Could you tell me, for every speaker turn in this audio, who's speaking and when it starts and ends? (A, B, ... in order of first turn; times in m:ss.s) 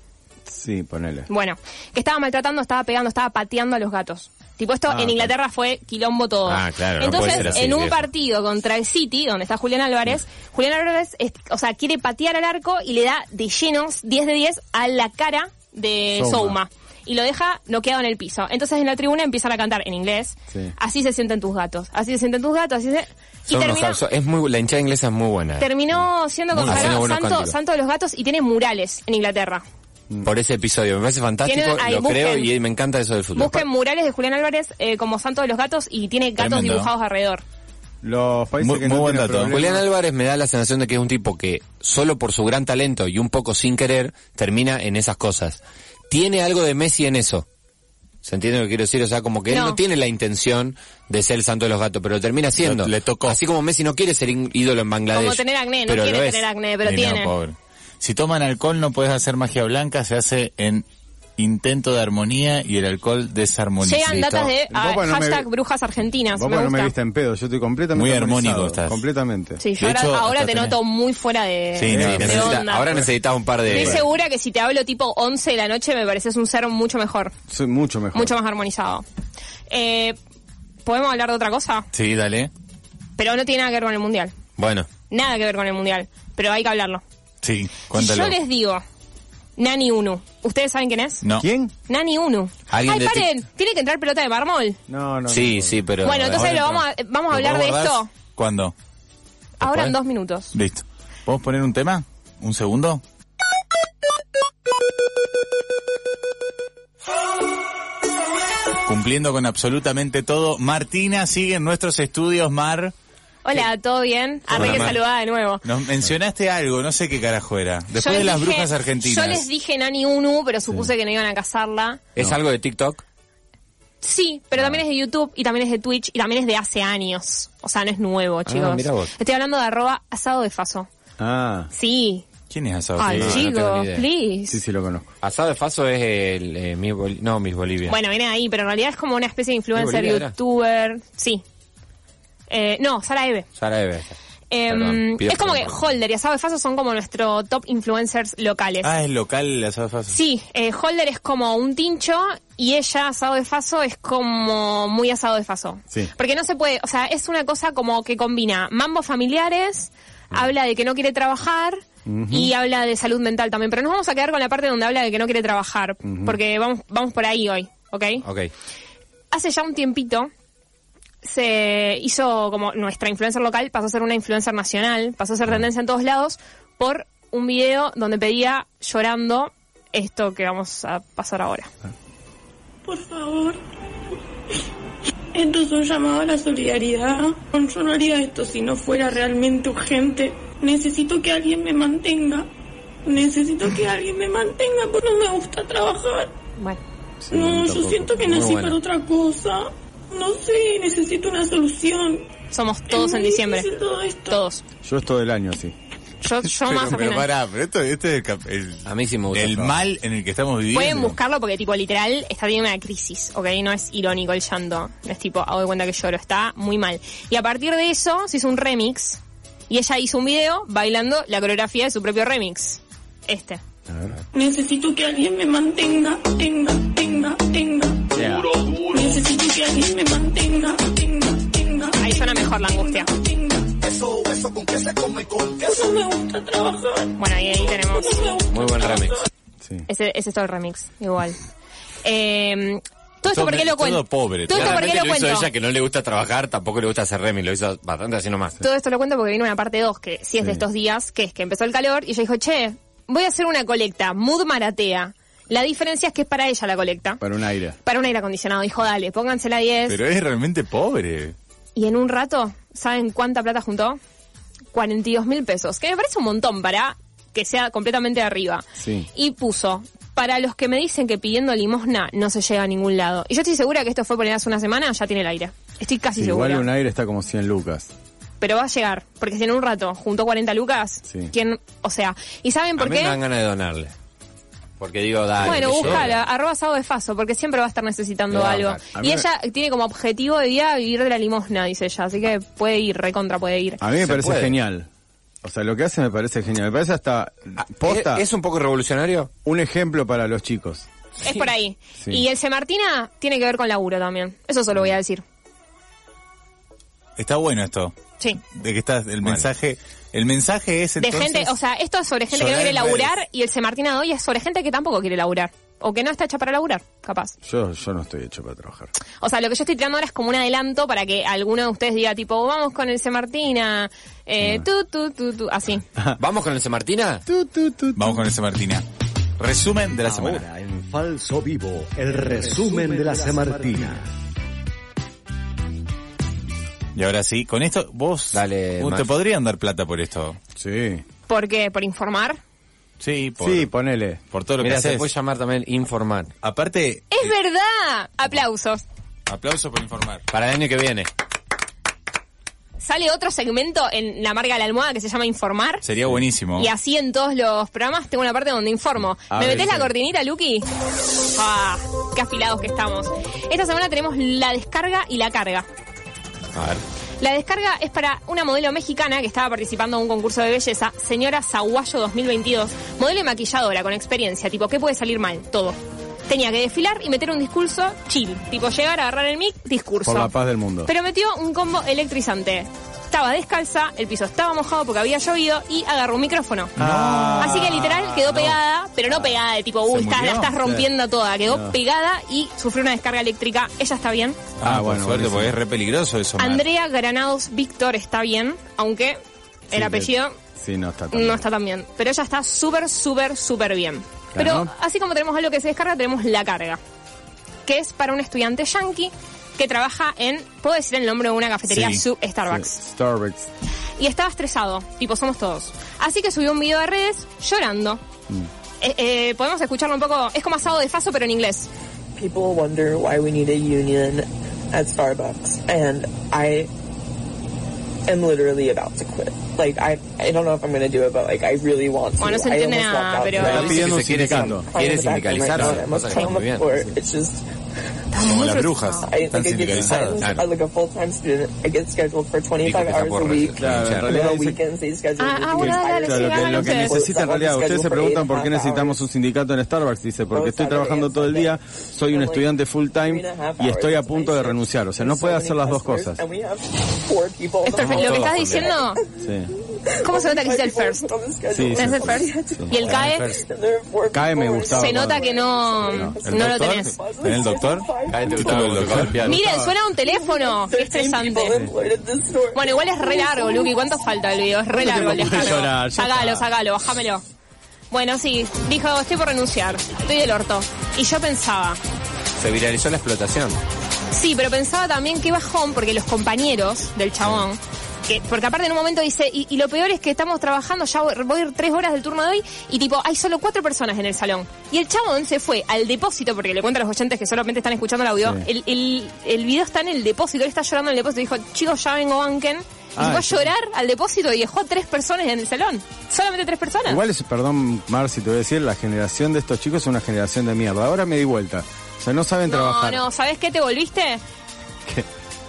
0:00.5-0:01.3 A
0:01.3-0:24.0 B
0:04.9-0:05.3 A
0:06.5-0:08.1 C
0:07.3-0:07.6 D
0:16.1-0:16.6 A
0:23.5-0:25.7 C
0:25.6-0:29.6 B
0:26.5-0:27.6 C
0:30.2-0:33.7 C
0:31.4-0:32.5 B
0:33.4-0:37.4 B
0:36.4-0:36.9 D
0:38.0-0:39.9 A
0:38.6-0:39.5 D
0:39.5-0:45.6 C
0:46.1-0:47.5 C
0:48.2-0:56.5 C
0:49.5-0:49.8 B
0:52.6-0:53.4 D
0:55.1-0:57.4 B
0:56.8-1:00.9 D
1:01.4-1:04.2 D
1:03.8-1:06.9 B
1:04.1-1:04.5 C
1:04.7-1:05.5 A
1:06.3-1:09.6 A
1:08.0-1:09.0 D
1:09.6-1:13.1 B
1:09.8-1:10.8 D
1:11.8-1:12.6 D
1:11.9-1:13.1 A
1:11.9-1:14.0 C
1:13.7-1:14.0 A
1:13.7-1:17.3 B
1:17.5-1:18.3 A
1:18.1-1:19.0 B
1:19.7-1:20.2 B
1:20.8-1:21.9 B
1:22.0-1:22.5 C
1:22.0-1:22.5 D
1:23.2-1:24.3 B
1:24.6-1:24.9 C
1:25.1-1:27.0 B
1:27.4-1:28.4 D
1:27.9-1:28.8 B
1:29.6-1:31.2 B
1:31.2-1:31.5 D
1:31.4-1:31.7 A
1:31.9-1:34.8 B
1:32.7-1:33.3 C
1:34.9-1:35.8 A
1:35.3-1:36.5 C
1:36.0-1:38.1 B
1:36.5-1:36.7 A
1:37.3-1:38.7 D
1:39.6-1:40.5 B
1:39.6-1:39.9 C
1:40.5-1:43.0 D
1:48.9-1:52.9 D
1:53.4-1:55.6 B
1:54.5-1:55.0 D
1:54.6-1:55.0 C
1:55.6-1:59.5 D
1:58.0-2:02.0 B
2:02.2-2:03.0 C
2:04.0-2:10.9 B
2:08.5-2:09.1 C
2:11.2-2:11.7 A
2:11.7-2:12.2 B
2:12.5-2:13.4 D
2:13.0-2:14.6 B
2:13.1-2:13.4 A
2:13.2-2:14.1 C
2:14.5-2:15.1 A
2:15.2-2:18.0 C
2:17.9-2:21.4 B
2:19.8-2:20.3 C
2:22.5-2:23.5 B
2:23.6-2:24.2 C
2:24.5-2:28.9 B
2:24.7-2:25.8 C
2:28.8-2:30.2 D
2:30.1-2:48.2 B
2:42.1-2:42.5 A
2:46.0-2:46.4 A
2:48.2-2:48.5 C
2:49.3-2:50.3 B
2:51.2-3:01.7 B
3:02.8-3:03.6 E
3:05.3-3:12.5 E
3:13.0-3:16.4 E
3:17.2-3:18.3 A
3:17.3-3:22.3 E
3:18.3-3:18.8 C
3:22.5-3:23.7 B
3:22.9-3:24.4 E
3:24.3-3:24.6 B
3:24.8-3:25.8 A
3:26.2-3:27.3 B
3:26.4-3:31.2 D
3:28.8-3:29.8 C
3:30.7-3:43.6 B
3:43.9-3:44.2 A
3:44.3-3:54.0 E
3:48.1-3:48.6 A
3:52.0-3:53.1 B
3:54.1-3:55.5 F
3:55.1-3:59.3 E
3:57.2-3:58.4 B
3:58.5-3:59.2 C
3:59.9-4:01.4 B
4:02.0-4:05.5 B
4:03.3-4:04.8 D
4:04.5-4:08.6 C
4:08.6-4:17.2 B
4:10.4-4:10.6 A
4:17.2-4:17.8 A
4:17.8-4:20.0 B
4:19.9-4:21.4 D
4:21.8-4:24.0 B
4:24.7-4:36.7 B
4:28.8-4:29.1 A
4:36.2-4:37.9 A
4:38.4-4:43.2 B
4:41.1-4:41.3 A
4:42.8-4:43.9 C
4:44.8-4:46.2 C
4:45.4-4:53.8 B
4:45.6-4:46.0 D
4:48.3-4:48.8 C
4:48.9-4:49.3 A
4:53.8-4:54.9 A
4:54.0-4:54.6 C
4:55.4-4:58.3 A
4:57.8-4:59.3 C
4:59.4-5:00.9 A
5:01.2-5:05.2 B
5:07.2-5:11.5 D
5:11.0-5:17.3 B
5:12.3-5:13.2 D
5:17.4-5:18.9 A
5:19.2-5:25.8 B
5:26.2-5:27.2 C
5:27.3-5:28.2 A
5:28.0-5:28.8 D
5:29.4-5:30.4 D
5:30.1-5:34.0 F
5:32.4-5:34.0 A
5:37.0-5:40.4 D
5:38.3-5:39.1 C
5:40.6-5:41.0 A
5:41.3-5:42.4 B
5:43.0-5:43.7 D
5:43.4-5:44.2 A
5:44.3-5:45.1 D
5:44.6-5:46.3 C
5:46.4-5:47.3 D
5:47.1-5:48.8 B
5:49.3-5:50.2 D
5:50.3-5:51.1 C
5:52.8-5:55.8 B
5:55.8-5:56.7 D
5:56.6-6:00.7 B
5:59.3-5:59.9 A
6:01.2-6:05.7 B
6:06.5-6:06.8 C
6:07.2-6:15.8 B
6:16.3-6:20.3 B
6:20.0-6:20.9 A
6:20.9-6:26.8 B
6:26.8-6:28.6 D
6:26.8-6:27.7 A
6:27.4-6:34.4 B
6:29.2-6:30.5 D
6:30.6-6:30.9 A
6:31.5-6:31.8 A
6:34.6-6:36.6 D
6:34.6-6:35.6 A
6:36.4-6:39.2 B
6:39.7-6:40.4 B
6:39.7-6:41.5 A
6:41.1-6:46.8 B
6:44.3-6:44.7 A
6:47.6-6:52.8 B
6:51.7-6:52.0 D
6:52.4-6:53.5 A
6:54.0-6:58.0 B
6:58.8-7:01.7 B
7:02.2-7:06.7 G
7:08.0-7:17.4 G
7:12.2-7:13.9 B
7:13.4-7:14.7 A
7:13.4-7:16.7 C
7:18.1-7:19.1 B
7:18.2-7:20.2 D
7:19.0-7:29.0 G
7:20.2-7:20.5 C
7:22.6-7:24.1 C
7:23.6-7:24.6 A
7:25.2-7:27.0 B
7:25.6-7:36.2 A
7:30.3-7:39.1 G
7:37.6-7:39.0 B
7:37.8-7:38.7 C
7:39.2-7:39.5 A
7:39.8-7:49.0 G
7:40.0-7:41.1 B
7:41.5-7:43.2 A
7:41.7-7:43.4 B
7:44.1-7:45.2 A
7:44.7-7:46.9 B
7:45.8-7:46.2 A
7:46.1-7:49.3 D
7:48.1-7:49.4 C
7:48.8-7:49.8 A
7:49.2-7:51.6 B
7:50.1-7:53.8 G
7:52.5-7:57.2 B
7:54.7-7:56.5 A
7:57.9-8:01.8 B
8:02.4-8:03.6 C
8:04.1-8:27.0 B
8:18.2-8:18.5 A
8:23.0-8:23.5 A
8:26.9-8:33.0 A
8:32.5-8:34.2 B